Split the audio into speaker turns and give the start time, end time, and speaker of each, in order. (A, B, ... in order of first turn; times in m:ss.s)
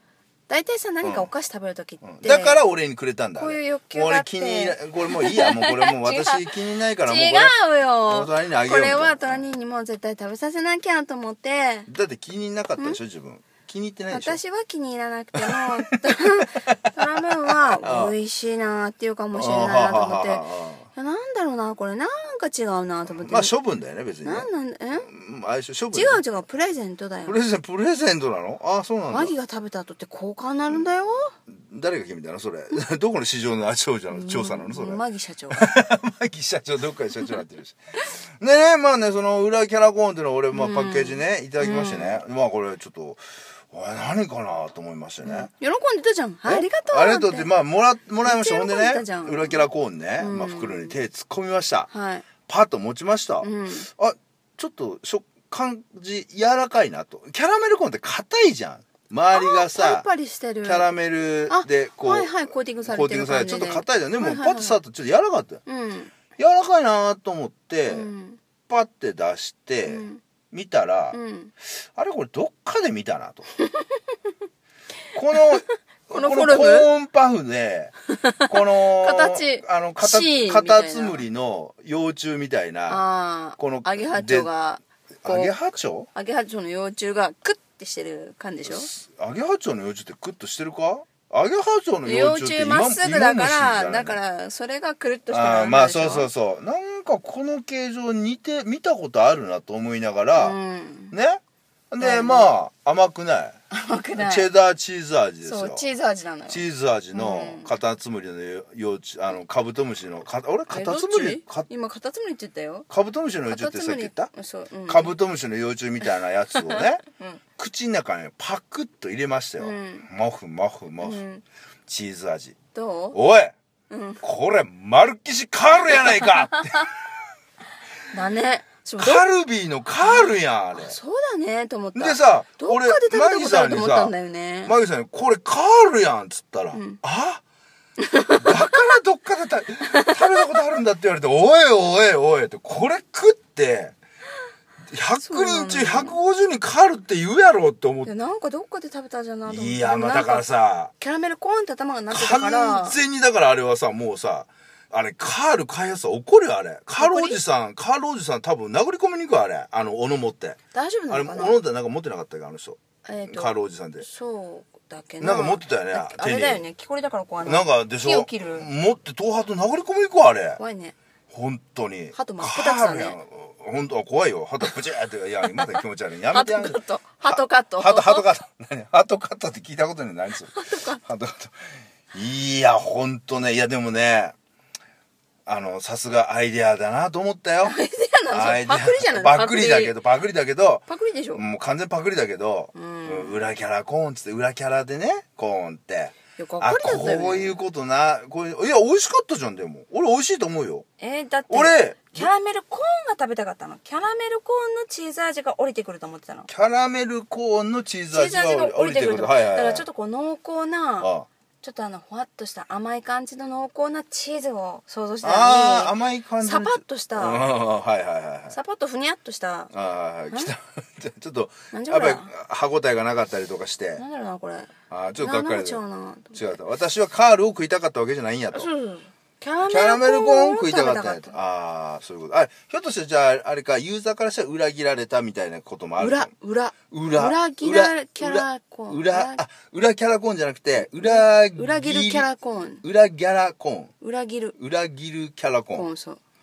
0:00.5-0:02.6 A
0:01.0-0:01.3 B
0:02.0-0:07.5 B
0:03.3-0:06.4 A
0:07.0-0:11.9 A
0:08.1-0:09.4 B
0:11.9-0:14.4 B
0:14.1-0:23.5 A
0:15.4-0:16.0 B
0:17.2-0:18.1 B
0:19.3-0:20.9 B
0:23.1-0:26.2 B
0:24.2-0:25.1 A
0:25.9-0:27.4 A
0:27.2-0:29.3 B
0:29.1-0:31.3 A
0:31.5-0:35.0 B
0:34.1-0:35.7 A
0:35.5-0:37.8 B
0:38.4-0:45.5 B
0:40.5-0:42.2 A
0:45.2-0:47.5 A
0:46.4-0:51.9 B
0:48.2-0:49.7 A
0:50.2-0:50.9 A
0:51.9-0:52.2 A
0:52.5-1:00.1 B
0:53.4-0:53.9 A
0:59.3-1:00.9 A
1:00.6-1:05.6 B
1:01.5-1:04.8 A
1:05.6-1:06.1 A
1:06.4-1:08.1 B
1:07.9-1:08.4 A
1:08.7-1:11.2 B
1:09.8-1:10.2 A
1:11.1-1:11.5 A
1:11.9-1:13.5 B
1:15.1-1:17.9 B
1:16.1-1:16.9 A
1:18.1-1:21.2 A
1:18.5-1:23.1 B
1:22.9-1:25.6 A
1:23.6-1:24.5 B
1:25.2-1:26.1 B
1:26.1-1:28.9 A
1:28.6-1:34.2 B
1:32.0-1:36.3 A
1:35.3-1:40.6 B
1:40.4-1:41.1 A
1:41.1-1:43.6 B
1:42.0-1:42.5 A
1:43.7-1:44.5 A
1:44.2-1:45.9 B
1:45.4-1:47.7 A
1:46.5-1:51.7 B
1:50.7-1:52.9 A
1:52.9-1:54.3 B
1:53.5-1:55.2 A
1:54.9-1:57.0 B
1:56.6-1:57.4 A
1:57.6-2:01.2 B
1:59.6-2:00.1 A
2:01.0-2:01.4 A
2:01.9-2:02.6 B
2:02.7-2:03.2 A
2:03.1-2:03.5 B
2:03.9-2:04.2 A
2:04.2-2:06.9 B
2:08.1-2:09.3 A
2:09.0-2:11.0 B
2:10.0-2:14.7 A
2:11.9-2:17.4 B
2:16.7-2:17.0 A
2:18.0-2:18.9 A
2:18.4-2:23.9 B
2:19.9-2:20.6 A
2:24.9-2:28.1 B
2:25.2-2:26.2 A
2:28.0-2:30.5 A
2:29.4-2:30.9 B
2:31.0-2:33.0 A
2:32.1-2:44.0 B
2:37.0-2:37.4 A
2:40.7-2:41.6 A
2:43.0-2:48.7 A
2:45.2-2:46.6 B
2:47.4-2:50.6 B
2:50.6-2:51.0 A
2:51.3-3:04.3 B
2:52.1-2:53.2 A
2:55.5-2:55.8 A
2:56.3-2:58.3 A
3:00.5-3:01.0 A
3:05.4-3:07.8 B
3:07.6-3:10.0 A
3:08.3-3:20.8 B
3:10.9-3:11.4 A
3:12.7-3:13.4 A
3:16.4-3:17.6 A
3:21.0-3:26.5 A
3:21.5-3:22.3 B
3:26.5-3:29.8 B
3:28.1-3:31.1 A
3:31.0-3:31.3 B
3:31.6-3:37.5 A
3:35.2-3:38.6 B
3:38.5-3:39.7 A
3:39.7-3:44.0 B
3:41.7-3:42.3 A
3:44.0-3:46.6 A
3:44.9-3:45.8 B
3:46.3-3:48.7 B
3:48.5-3:51.3 A
3:49.6-3:56.3 B
3:56.0-3:59.4 A
3:56.9-4:02.3 B
4:00.8-4:02.8 A
4:02.8-4:03.9 B
4:04.0-4:04.5 A
4:04.6-4:05.9 B
4:05.7-4:06.2 A